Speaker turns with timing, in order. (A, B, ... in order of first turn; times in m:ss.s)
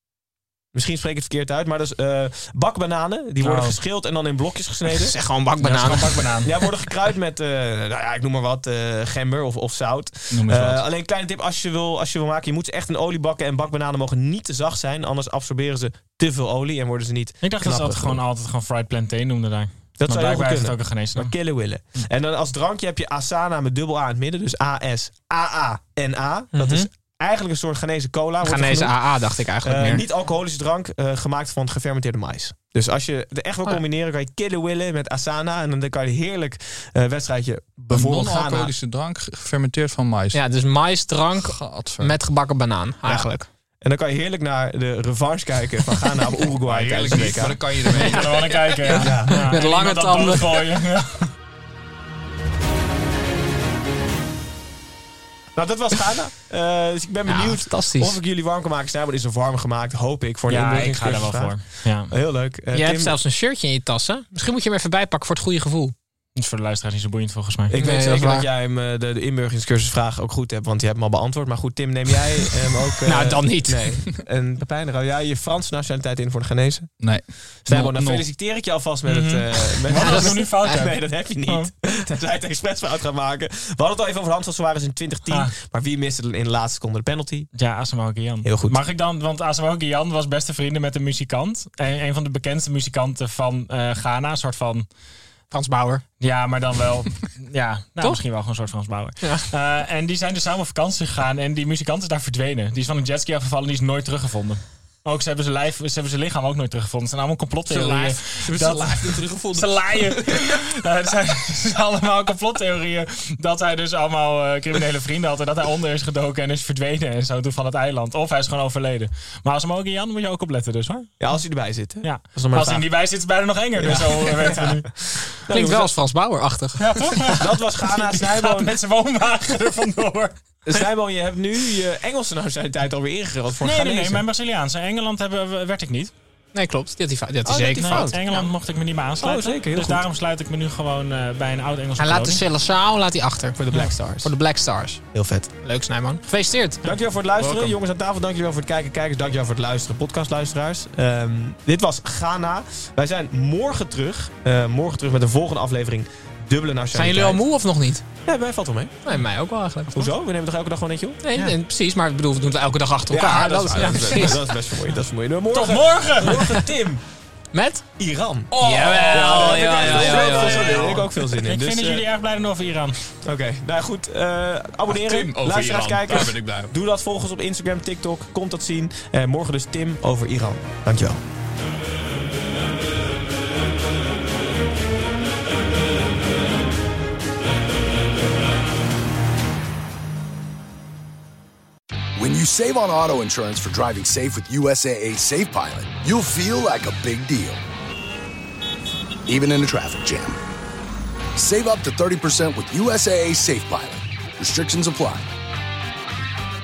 0:00.7-0:05.1 A
0:03.4-0:03.8 B
0:04.9-0:06.7 C
0:05.6-0:06.5 B
0:06.4-0:18.2 A
0:10.3-0:10.8 B
0:17.4-0:21.3 B
0:20.0-0:29.0 A
0:26.5-0:26.9 C
0:28.4-0:30.0 C
0:29.6-0:38.7 A
0:37.9-0:40.4 D
0:40.3-0:43.5 C
0:41.3-0:42.2 D
0:43.0-0:47.6 A
0:46.6-0:48.7 D
0:47.9-0:50.7 C
0:48.0-0:51.3 B
0:48.9-0:49.4 A
0:55.6-1:03.2 A
0:57.3-0:58.2 C
1:00.5-1:02.1 B
1:02.7-1:05.9 C
1:06.4-1:07.7 B
1:07.7-1:16.9 A
1:07.8-1:08.5 C
1:13.0-1:14.0 C
1:17.0-1:18.3 D
1:17.6-1:27.5 A
1:19.0-1:21.7 B
1:20.0-1:20.9 C
1:27.5-1:34.9 B
1:28.4-1:28.8 A
1:35.5-1:36.0 C
1:36.2-2:01.1 B
1:39.2-1:39.4 C
1:47.7-1:50.4 D
2:01.2-2:02.8 A
2:02.0-2:05.3 B
2:03.8-2:05.9 A
2:05.5-2:07.3 C
2:06.8-2:10.4 B
2:07.3-2:08.7 A
2:10.6-2:14.2 A
2:13.6-2:16.1 B
2:16.5-2:18.5 C
2:17.4-2:18.2 A
2:17.8-2:22.4 B
2:19.2-2:20.0 A
2:22.0-2:26.8 C
2:23.6-2:24.3 A
2:25.1-2:25.5 A
2:26.8-2:37.4 A
2:36.9-2:38.0 C
2:38.2-2:38.9 A
2:39.0-2:40.1 C
2:39.9-2:41.2 A
2:41.2-2:44.6 C
2:43.1-2:47.0 A
2:45.5-2:46.6 B
2:47.5-2:47.8 C
2:48.0-2:48.6 A
2:48.5-2:50.7 D
2:48.6-2:51.2 C
2:49.1-2:52.0 A
2:50.3-2:53.0 B
2:53.2-3:01.2 A
2:54.9-2:56.7 D
3:12.2-3:17.6 E
3:19.3-3:20.4 E
3:21.4-3:25.3 E